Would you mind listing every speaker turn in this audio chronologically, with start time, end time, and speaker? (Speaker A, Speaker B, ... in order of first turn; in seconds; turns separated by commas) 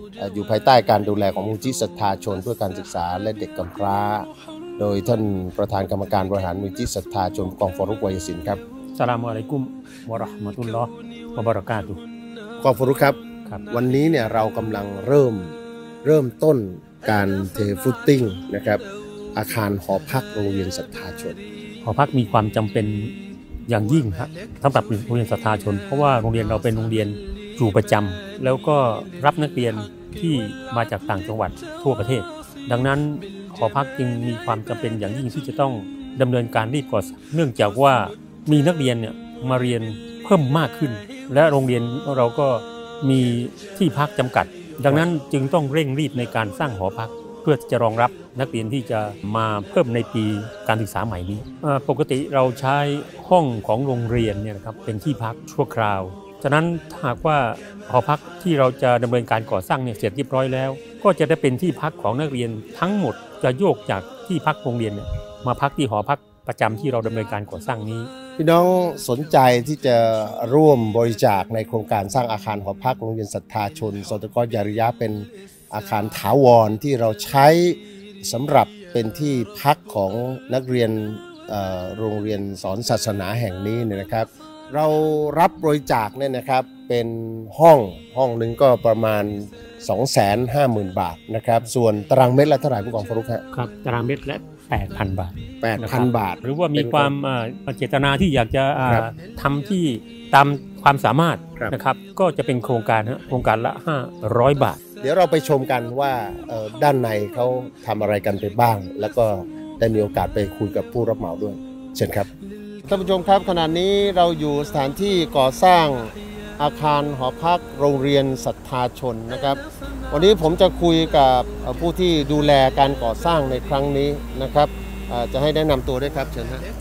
Speaker A: 0.2-8.6, Speaker B: 8.9-12.0, Speaker A: 12.6-13.2, Speaker A: 13.7-18.8, Speaker A: 19.4-21.4, Speaker B: 21.8-23.1, Speaker B: 23.7-68.1, Speaker A: 68.4-93.4, Speaker B: 93.5-104.8, Speaker A: 95.6-97.1, Speaker A: 98.8-99.1, Speaker A: 105.0-112.3, Speaker A: 112.8-126.6